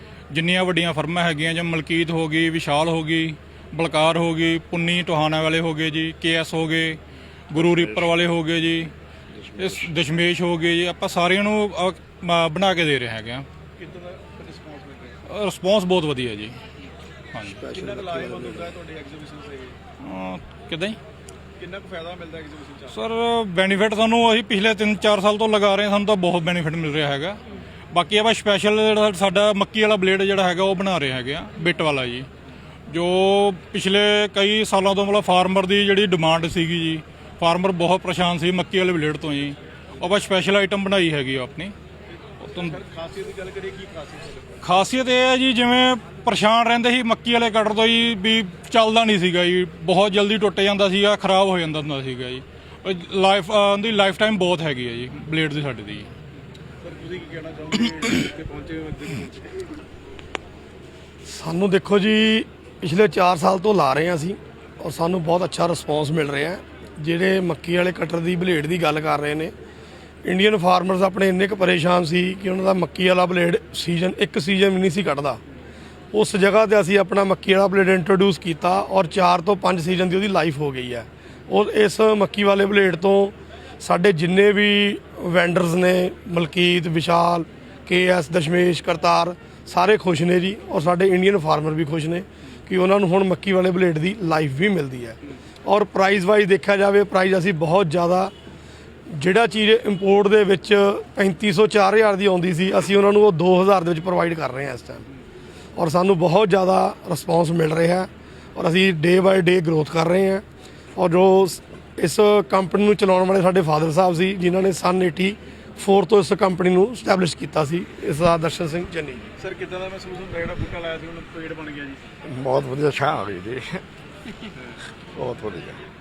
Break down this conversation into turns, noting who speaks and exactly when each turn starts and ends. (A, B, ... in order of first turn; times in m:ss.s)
0:00.3-0:07.0 A
0:07.5-0:08.9 A
0:09.5-0:13.4 A
0:13.8-0:15.2 B
0:15.3-0:16.6 A
0:17.3-0:17.6 A
0:17.4-0:18.7 C
0:17.6-0:19.8 B
0:20.0-0:21.0 A
0:21.6-0:23.0 B
0:22.9-0:27.4 A
0:27.9-0:32.3 A
0:32.9-0:41.7 A
0:42.4-0:42.8 A
0:42.6-0:44.6 B
0:44.6-0:56.1 A
0:56.8-0:59.6 B
1:01.2-1:09.5 C
1:10.2-1:15.4 C
1:16.1-1:38.3 C
1:39.1-1:45.0 C
1:45.8-1:50.4 C
1:50.9-1:59.3 C
1:59.4-2:02.0 B
2:02.2-2:03.8 D
2:05.1-2:05.8 D